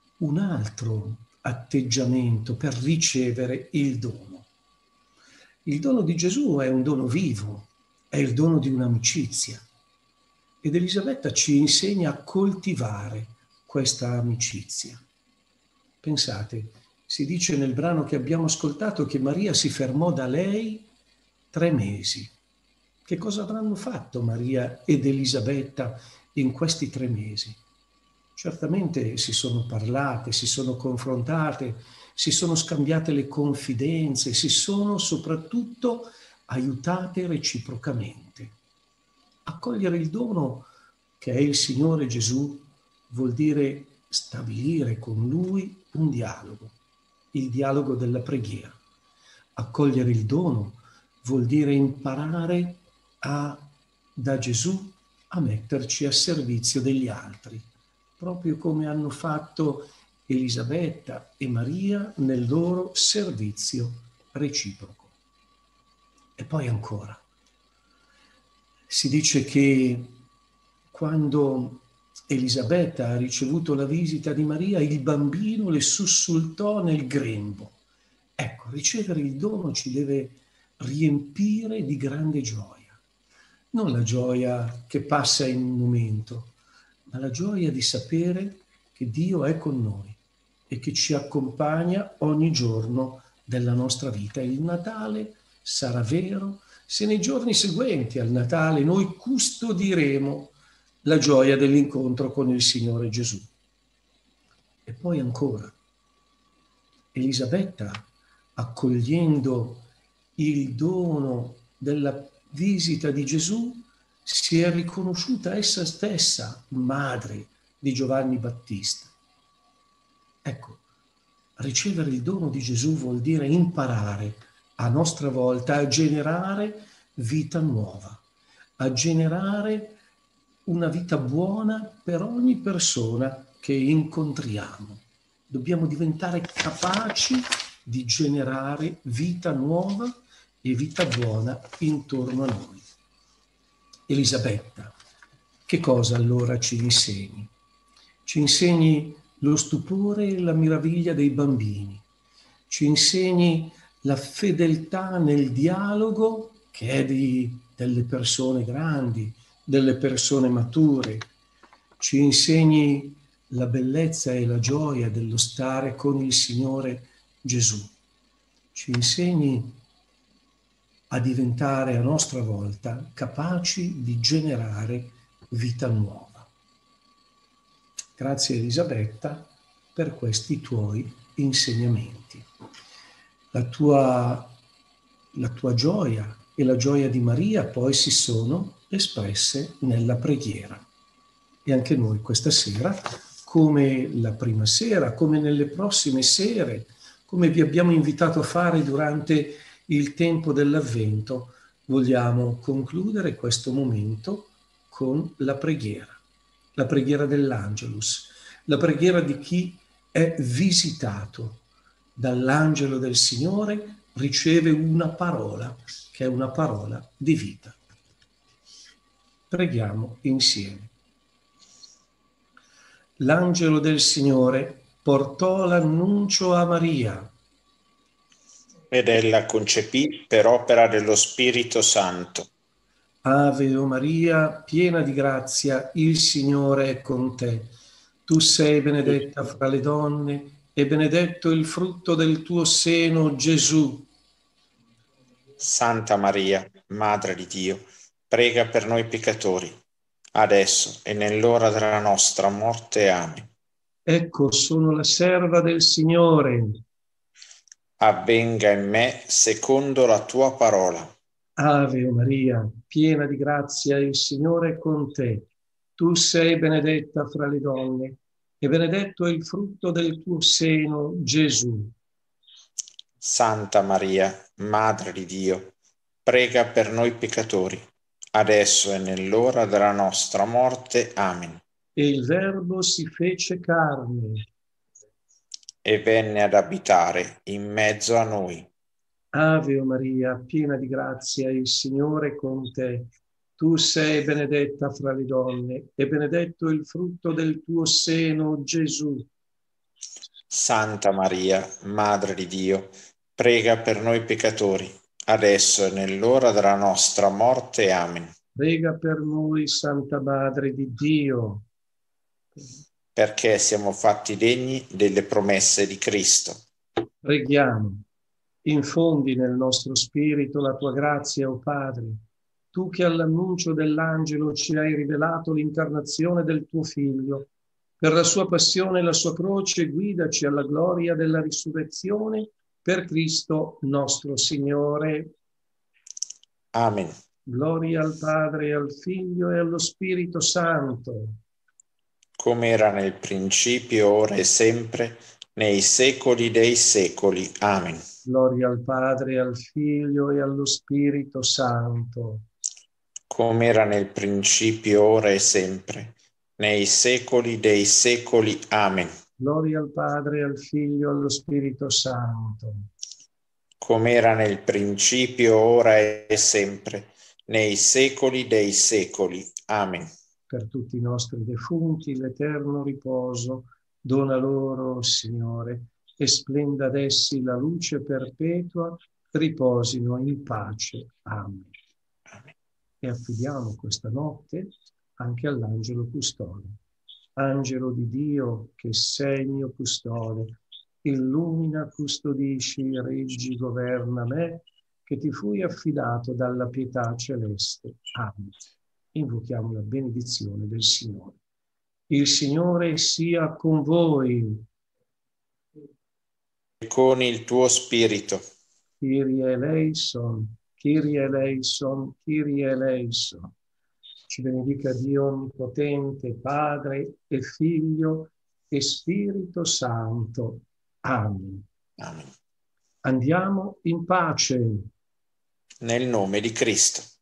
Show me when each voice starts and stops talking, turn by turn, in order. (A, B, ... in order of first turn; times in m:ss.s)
0:00.2-0:04.5 A
0:05.7-0:09.6 A
0:10.6-0:15.0 A
0:16.0-0:20.9 A
0:21.5-0:22.3 A
0:23.0-0:27.6 A
0:28.4-0:38.6 A
0:39.5-0:40.7 A
0:41.2-0:46.8 A
0:47.3-0:48.8 A
0:49.6-0:57.7 A
0:58.2-1:05.1 A
1:06.4-1:07.2 A
1:08.9-1:10.2 A
1:10.9-1:17.8 A
1:18.4-1:23.0 A
1:23.7-1:26.5 A
1:27.1-1:30.2 A
1:30.7-1:43.5 A
1:44.9-1:45.8 A
1:47.1-1:49.9 A
1:50.4-1:59.2 A
2:00.4-2:00.8 A
2:01.6-2:08.2 A
2:08.8-2:10.0 A
2:10.7-2:22.9 A
2:24.1-2:25.0 A
2:25.7-2:27.5 A
2:28.2-2:32.0 A
2:32.7-2:41.3 A
2:42.0-2:47.9 A
2:48.7-2:49.8 A
2:51.1-2:56.5 A
2:58.2-3:02.5 A
3:03.5-3:04.5 A
3:05.4-3:10.9 A
3:11.6-3:26.2 A
3:26.8-3:31.6 A
3:32.2-3:37.8 A
3:39.5-3:40.9 A
3:43.2-3:47.3 A
3:48.9-3:52.5 B
3:53.2-3:57.8 A
3:58.3-4:04.1 A
4:05.6-4:09.8 B
4:10.3-4:13.5 B
4:14.1-4:16.8 A
4:18.0-4:21.1 B
4:21.6-4:31.9 A
4:33.2-4:35.7 B
4:36.2-4:41.6 B
4:42.0-4:44.5 A
4:45.8-4:48.7 B
4:49.3-4:59.3 A
5:00.5-5:08.3 B
5:08.6-5:11.7 A
5:13.2-5:16.6 B
5:17.2-5:18.0 A
5:18.6-5:22.2 A
5:22.7-5:27.5 A
5:28.0-5:35.3 A
5:36.7-5:37.1 B
5:37.5-5:41.4 A
5:42.4-5:48.0 B
5:48.2-5:52.5 A
5:53.3-5:59.1 B
5:59.4-6:02.9 A
6:03.8-6:10.1 B
6:10.5-6:21.7 A
6:23.0-6:26.8 A
6:27.4-6:41.4 A
6:42.1-6:44.6 A
6:46.8-6:48.4 B
6:49.0-6:53.5 A
6:54.3-7:01.7 A
7:02.0-7:02.3 B
7:03.0-7:04.9 A
7:05.8-7:07.1 B